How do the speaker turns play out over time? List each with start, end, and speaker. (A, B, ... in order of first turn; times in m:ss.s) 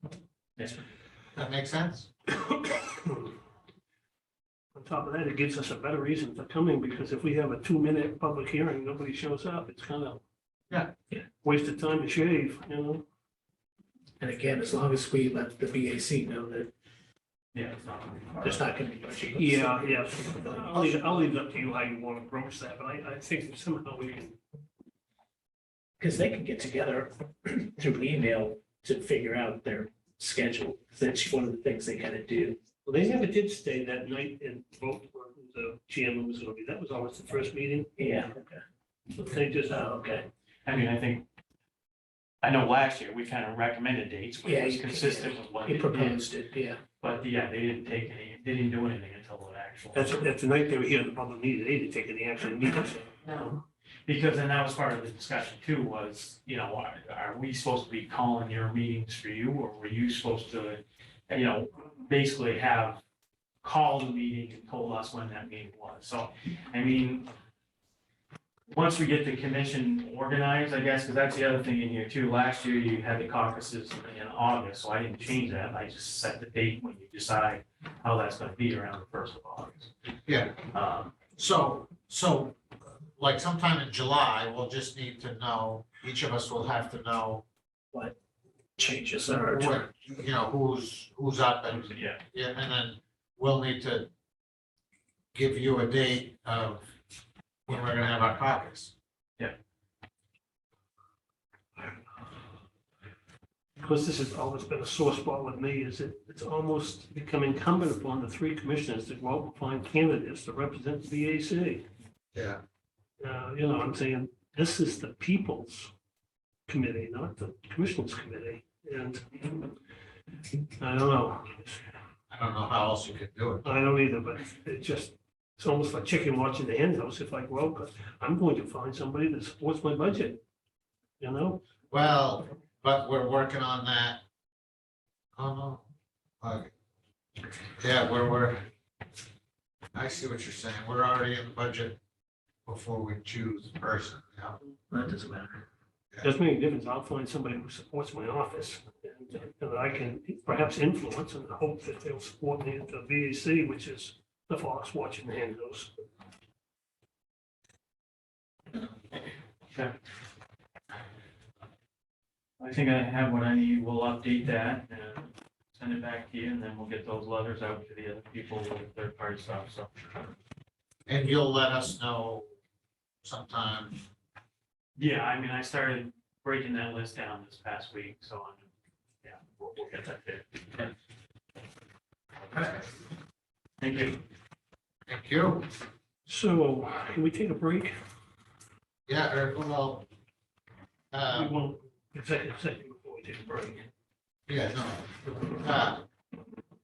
0:00.6-0:00.8 A
0:01.4-0:02.1 B
0:02.4-0:03.3 C
0:04.8-0:10.2 C
0:11.4-0:13.1 C
0:14.2-0:16.7 D
0:17.5-0:18.7 A
0:18.4-0:21.1 D
0:19.4-0:24.4 C
0:26.0-0:32.6 D
0:32.8-0:37.9 C
0:38.0-0:38.6 D
0:39.1-0:40.0 C
0:39.6-0:40.3 D
0:40.6-0:41.2 A
0:42.4-0:46.3 A
0:44.4-0:46.8 D
0:47.0-0:50.2 A
0:49.9-0:53.2 C
0:53.3-1:03.0 A
1:03.6-1:07.3 A
1:08.7-1:19.9 A
1:20.3-1:20.6 B
1:20.6-1:21.2 A
1:21.4-1:22.6 B
1:23.2-1:27.4 B
1:28.8-1:29.9 D
1:29.5-1:34.1 B
1:31.7-1:32.2 A
1:35.3-1:36.8 B
1:37.7-1:38.9 B
1:43.8-1:51.8 C
1:52.3-1:52.6 B
1:53.2-1:55.9 C
1:56.7-1:59.6 C
2:00.8-2:01.8 C
2:02.3-2:03.7 B
2:03.6-2:10.4 C
2:11.2-2:11.6 C
2:11.9-2:14.2 B
2:15.4-2:15.8 B
2:16.4-2:16.7 B
2:17.8-2:18.6 B
2:19.9-2:22.0 B
2:22.7-2:24.6 B
2:24.9-2:25.6 D
2:26.2-2:36.0 C
2:42.6-2:49.9 A
2:51.1-2:52.5 B
2:53.2-2:54.0 B
2:55.0-2:58.7 A
2:59.2-3:00.9 A
3:02.5-3:02.9 B
3:03.8-3:04.2 A
3:05.1-3:05.7 B
3:06.3-3:07.9 C
3:09.1-3:10.1 B
3:11.1-3:11.6 B
3:11.3-3:13.9 C
3:14.5-3:16.0 B